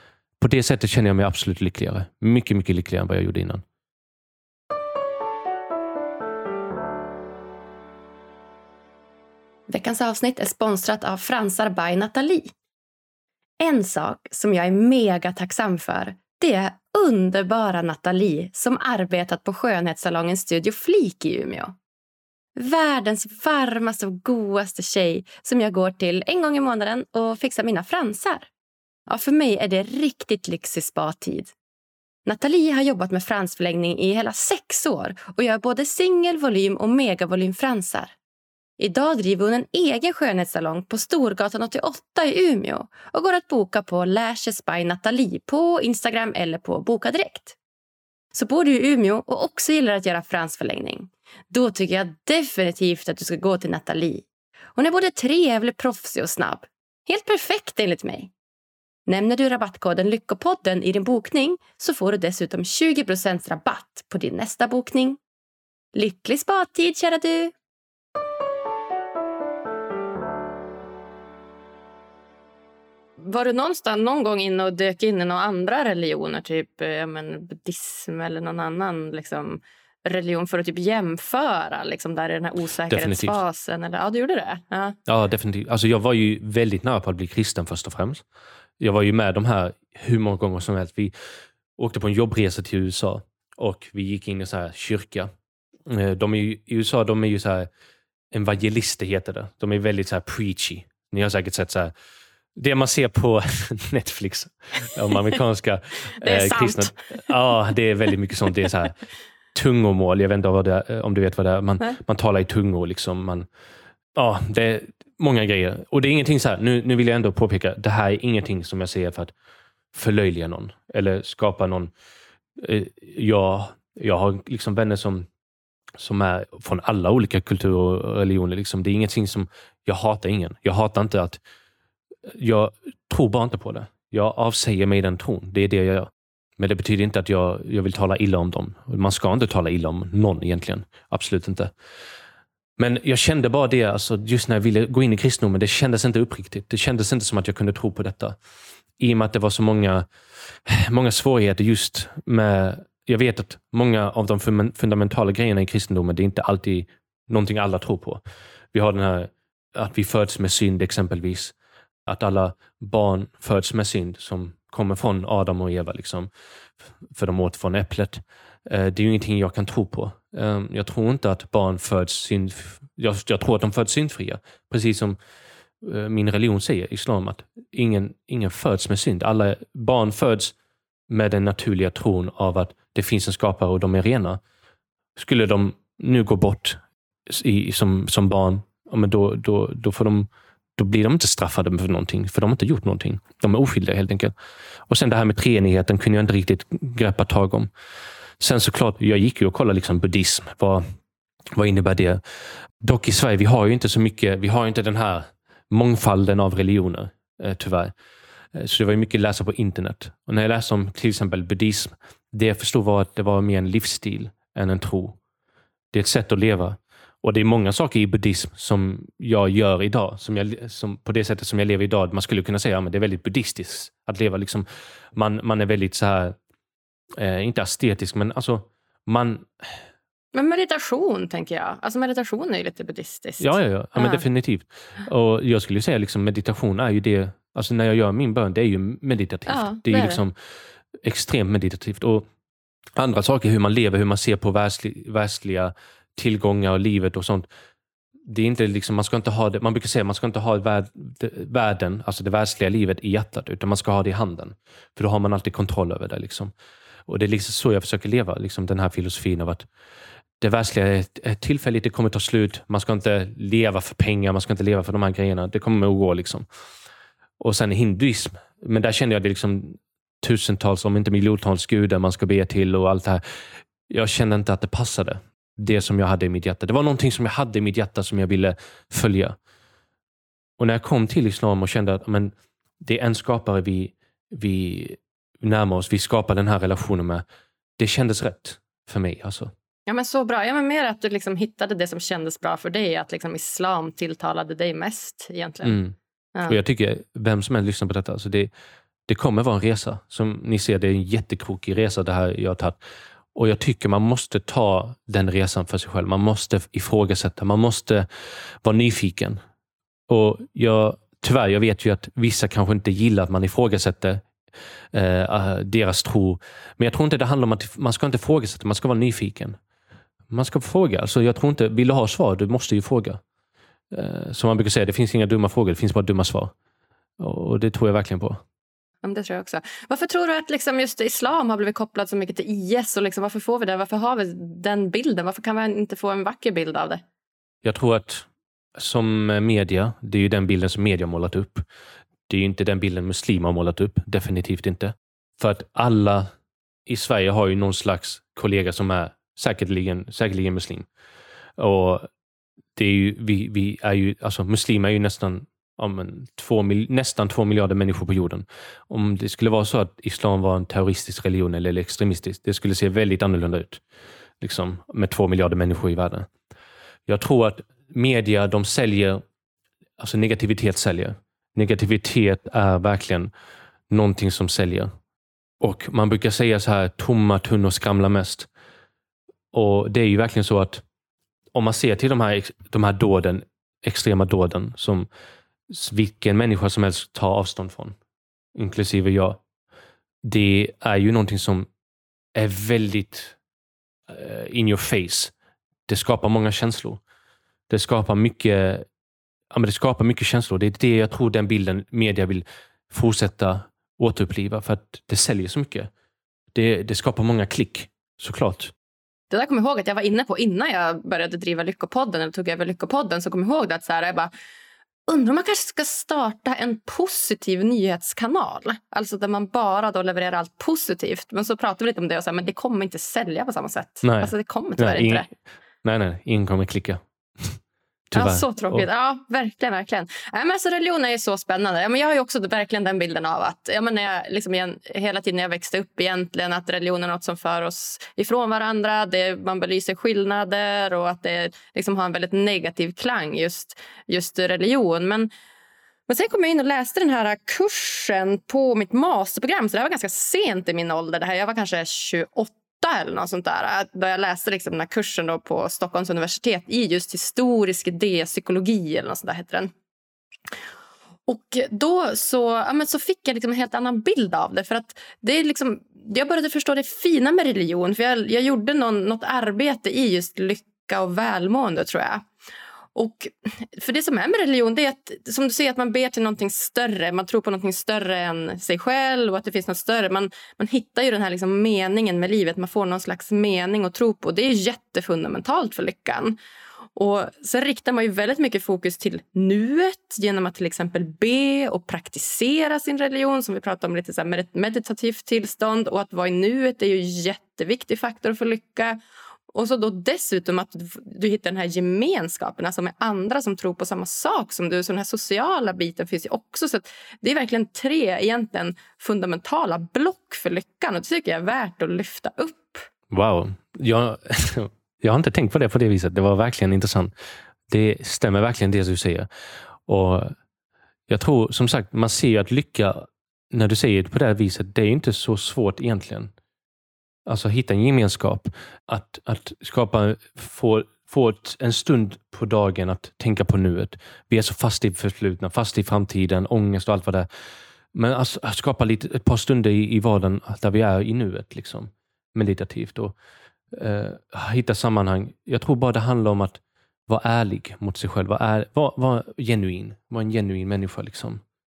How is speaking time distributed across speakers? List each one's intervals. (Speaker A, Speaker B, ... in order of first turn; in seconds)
Speaker A: 0.4-3.6, 82.9-83.4, 85.1-88.2, 88.8-91.1, 91.8-95.3, 95.9-97.7, 98.3-101.9, 102.5-109.0, 109.5-113.5, 114.1-119.3, 119.9-121.9, 122.6-125.3, 126.0-131.4, 132.3-141.7, 142.8-148.4, 149.0-150.1, 150.7-158.2, 158.7-161.5, 162.1-166.3, 167.1-175.2, 175.8-180.5, 181.1-184.4, 185.2-194.3, 194.9-197.7, 198.4-200.8, 201.5-202.2, 202.8-207.9, 208.5-215.2, 215.9-226.3, 227.2-229.7, 233.4-240.3, 241.0-242.3, 242.9-247.5, 248.3-256.5, 257.1-259.6, 260.4-266.4, 267.4-273.2, 273.9-279.4, 280.6-287.2, 287.8-289.5, 295.6-298.5, 299.1-302.8, 303.3-308.1, 308.6-309.4, 310.1-314.2, 314.9-319.6, 320.3-323.2, 323.9-326.5, 327.2-328.4, 337.6-341.6, 342.3-346.3, 346.9-350.9, 351.6-352.1, 352.8-363.8, 364.4-366.3, 367.1-369.2, 370.0-373.3, 373.9-374.9, 375.6-378.5, 379.5-380.8, 381.5-385.1, 385.7-387.9, 388.5-389.4, 390.2-391.7, 392.3-393.4, 394.1-395.3, 395.9-397.0, 397.7-398.9, 399.5-405.9, 406.5-408.7, 424.0-425.3, 425.8-427.6, 428.1-428.9, 513.1-517.1, 517.7-519.3, 519.9-520.3, 521.1-526.3, 527.2-537.3, 537.9-543.1, 543.7-551.4
Speaker B: 9.7-12.5, 13.6-21.8, 22.6-28.5, 29.1-31.5, 32.2-38.1, 38.8-47.5, 48.3-58.3, 59.1-65.2, 65.9-67.5, 73.2-74.4, 78.2-79.0, 80.1-81.6, 82.4-83.9, 106.2-106.9, 230.3-232.6, 239.6-240.1, 415.2-418.9, 424.3-424.9, 428.4-428.7, 491.8-492.1
Speaker C: 73.9-79.6, 80.3-84.9, 230.8-233.5, 289.9-295.8, 329.1-337.0, 409.3-414.3, 415.7-416.1, 417.8-425.2, 428.1-445.3, 446.1-459.7, 461.3-472.2, 473.0-486.3, 487.0-498.9, 499.5-512.8